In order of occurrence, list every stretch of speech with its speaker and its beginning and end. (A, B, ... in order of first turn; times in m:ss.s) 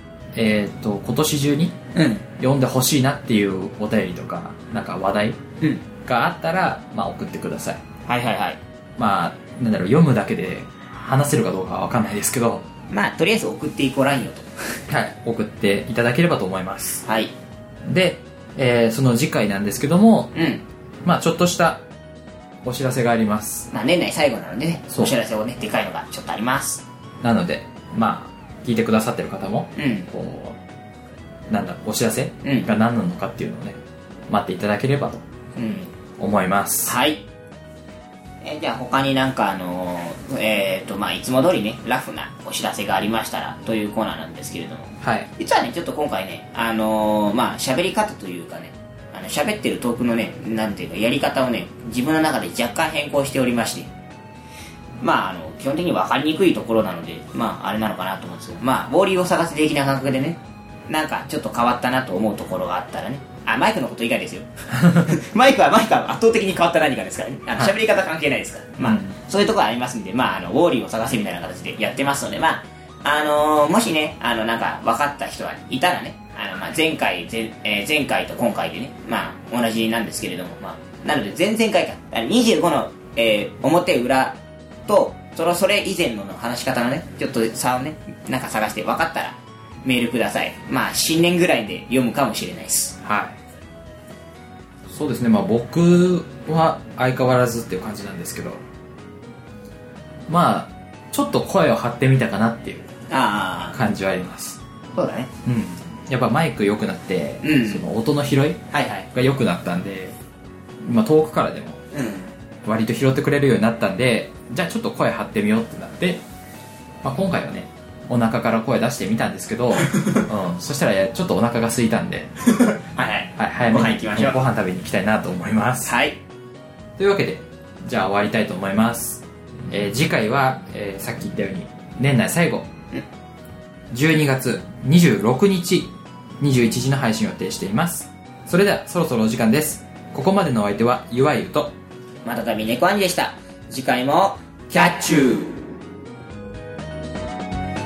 0:00.3-0:01.8 A
0:01.9-0:02.2 B
0:02.4-0:05.4 A
0:06.0-0:07.8 A
0:08.1-0:08.6 B
0:09.0-0:12.7 A
0:12.9-0:14.8 B
0:14.9-0:17.0 A
0:17.0-0:17.3 B
0:17.9-0:20.3 A
0:20.3-0:20.6 B
0:21.0-0:21.8 A
0:22.6-0:23.7 A
0:23.7-0:26.8 B
0:27.2-0:30.6 A
0:29.8-0:30.1 B
0:31.5-0:33.8 A
0:32.4-0:32.7 B
0:34.3-0:35.2 A
0:35.6-0:35.9 B
0:36.2-0:36.9 A
0:36.8-0:37.2 B
0:38.4-0:53.9 B
0:45.0-0:45.3 A
0:55.0-1:33.0 B
1:08.8-1:09.1 A
1:33.0-1:33.3 A
1:34.9-1:38.6 A
1:40.3-1:42.9 A
1:43.1-1:43.8 B
1:43.7-1:44.6 A
1:44.9-1:45.3 B
1:45.4-1:50.1 A
1:47.4-1:47.8 B
1:48.7-1:49.1 B
1:50.8-1:51.8 A
1:51.9-1:52.3 B
1:52.6-1:56.2 A
1:57.0-2:02.3 A
2:02.5-2:04.4 B
2:03.4-2:05.9 A
2:05.8-2:06.2 B
2:07.0-2:12.7 A
2:13.9-2:21.7 A
2:22.2-2:25.6 B